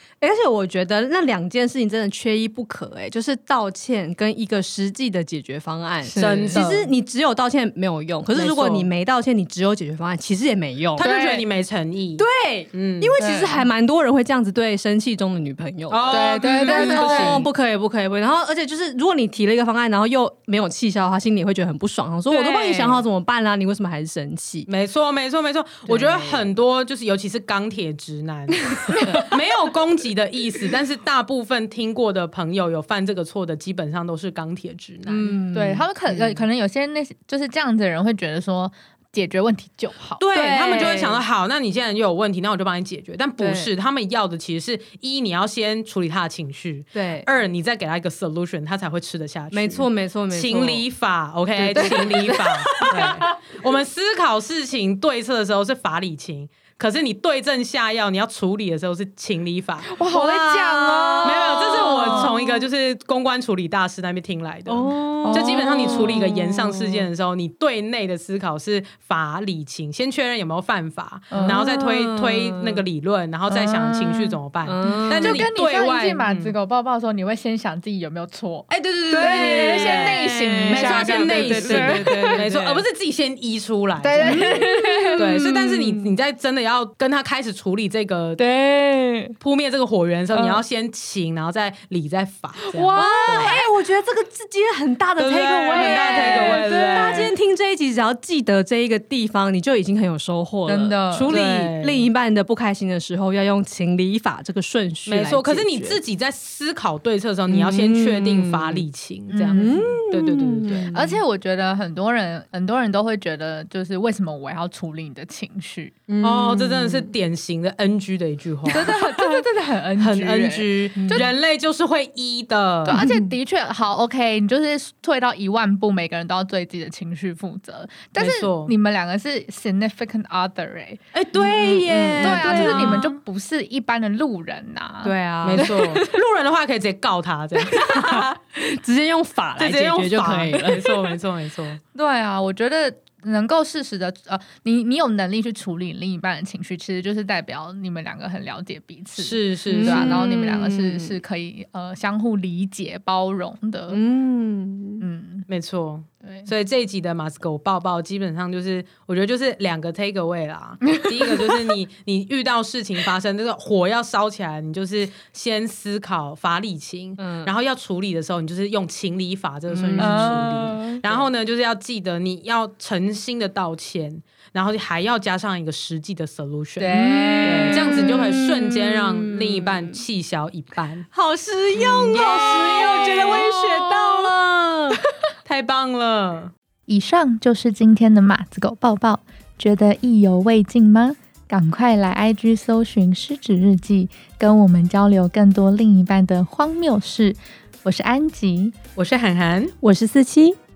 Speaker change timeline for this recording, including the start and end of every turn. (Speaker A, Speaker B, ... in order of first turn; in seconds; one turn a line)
Speaker A: 0.2-11.1
Speaker B: 6.1-6.9
Speaker C: 6.2-6.6
Speaker B: 8.3-8.9
Speaker B: 10.9-13.6
Speaker C: 11.0-11.4
Speaker A: 12.2-24.7
Speaker C: 13.2-13.5
Speaker B: 15.9-17.5
Speaker C: 16.1-17.5
Speaker B: 22.3-23.0
Speaker B: 24.6-35.4
Speaker A: 25.9-26.5
Speaker A: 35.0-35.9
Speaker C: 35.5-40.2
Speaker B: 36.1-36.4
Speaker B: 40.2-59.9
Speaker A: 40.3-41.2
Speaker A: 43.4-43.7
Speaker A: 46.9-47.3
Speaker A: 49.5-50.8
Speaker A: 51.5-53.4
Speaker C: 59.8-62.3
Speaker A: 60.1-62.6
Speaker B: 61.2-76.5
Speaker A: 64.7-67.1
Speaker C: 65.2-66.2
Speaker C: 71.3-71.6
Speaker A: 71.3-72.8
Speaker C: 73.5-82.4
Speaker A: 74.6-75.5
Speaker A: 78.7-82.8
Speaker B: 79.1-84.6
Speaker C: 84.0-85.2
Speaker A: 84.2-86.1
Speaker B: 85.2-88.4
Speaker C: 88.4-89.3
Speaker B: 89.4-93.6
Speaker C: 90.3-90.6
Speaker C: 92.6-93.7
Speaker A: 92.9-106.0
Speaker B: 95.2-97.3
Speaker C: 95.7-97.3
Speaker C: 100.7-101.3
Speaker B: 101.1-102.1
Speaker B: 105.0-110.9
Speaker A: 107.5-108.8
Speaker C: 109.3-109.8
Speaker A: 109.5-111.2
Speaker C: 110.9-115.9
Speaker A: 116.1-117.1
Speaker B: 116.2-123.0
Speaker C: 118.7-121.3
Speaker A: 121.0-121.2
Speaker C: 122.8-131.0
Speaker A: 122.9-123.3
Speaker B: 128.2-128.7
Speaker B: 131.1-133.1
Speaker A: 131.3-133.1
Speaker C: 132.2-135.8
Speaker A: 135.0-136.1
Speaker B: 135.4-138.3
Speaker A: 137.6-141.2
Speaker B: 139.6-141.8
Speaker C: 141.9-154.0
Speaker B: 149.2-150.3
Speaker A: 149.7-151.2
Speaker A: 153.9-155.0
Speaker C: 155.0-155.5
Speaker B: 155.5-181.1
Speaker C: 156.2-156.5
Speaker A: 167.2-167.5
Speaker A: 169.7-171.2
Speaker C: 170.0-171.0
Speaker C: 176.8-178.0
Speaker A: 176.9-180.0
Speaker A: 181.1-185.0
Speaker B: 181.8-184.3
Speaker B: 185.4-186.5
Speaker C: 186.9-198.7
Speaker B: 198.9-199.7
Speaker A: 199.8-200.6